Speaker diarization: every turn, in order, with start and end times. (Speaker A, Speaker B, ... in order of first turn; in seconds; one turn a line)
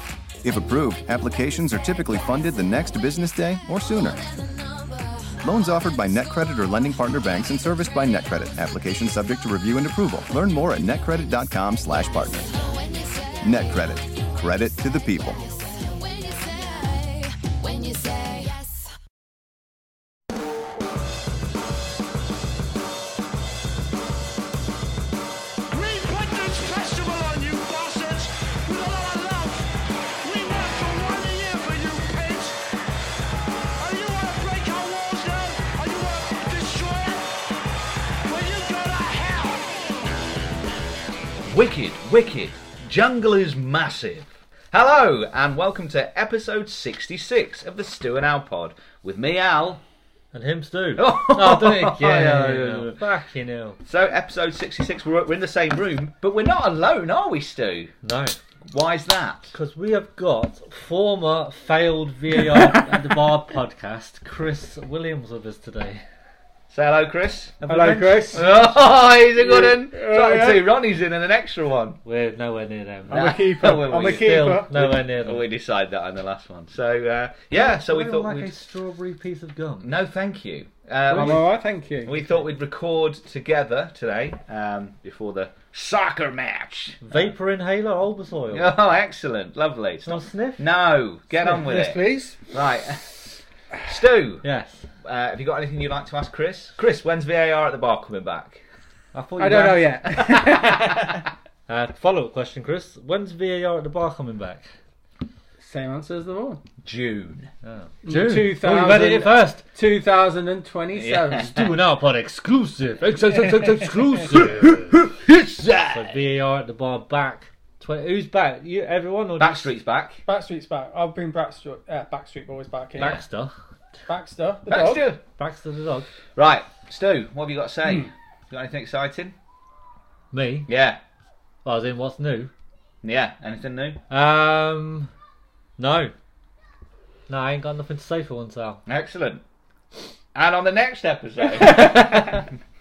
Speaker A: 0.4-4.3
Speaker A: 5.4-12.8
Speaker A: 13.4-15.4
Speaker B: 25.7-32.6
Speaker B: 33.8-37.2
Speaker B: 38.2-40.0
Speaker C: 41.4-49.8
Speaker D: 50.3-53.8
Speaker C: 51.0-53.0
Speaker C: 53.9-57.9
Speaker D: 58.0-58.4
Speaker C: 58.7-59.5
Speaker D: 59.5-66.0
Speaker C: 66.7-67.6
Speaker D: 67.6-68.4
Speaker E: 67.7-68.5
Speaker C: 68.3-72.0
Speaker E: 69.4-70.7
Speaker D: 72.0-75.4
Speaker E: 73.1-74.8
Speaker C: 73.1-78.6
Speaker D: 77.5-79.9
Speaker C: 79.8-81.5
Speaker E: 81.1-82.2
Speaker C: 82.1-87.0
Speaker D: 87.0-88.8
Speaker C: 88.5-93.3
Speaker D: 90.0-90.6
Speaker E: 91.3-92.4
Speaker C: 93.8-94.5
Speaker D: 94.4-94.8
Speaker C: 95.0-98.6
Speaker D: 99.1-100.0
Speaker E: 99.4-101.2
Speaker C: 100.1-101.2
Speaker D: 101.7-104.7
Speaker E: 105.6-106.6
Speaker C: 106.8-107.5
Speaker D: 107.6-109.6
Speaker E: 108.0-111.5
Speaker C: 110.9-111.8
Speaker D: 111.5-115.0
Speaker E: 113.3-114.0
Speaker C: 114.3-116.1
Speaker D: 115.9-119.7
Speaker C: 119.4-120.2
Speaker E: 120.3-123.2
Speaker D: 123.0-123.5
Speaker E: 124.1-125.0
Speaker C: 124.7-125.2
Speaker D: 125.4-126.1
Speaker C: 126.4-129.3
Speaker D: 130.3-130.7
Speaker C: 130.7-131.0
Speaker D: 131.7-132.5
Speaker C: 133.0-134.0
Speaker D: 134.1-135.1
Speaker D: 135.8-136.1
Speaker D: 137.3-138.8
Speaker C: 138.9-139.4
Speaker C: 140.3-142.5
Speaker E: 141.5-142.5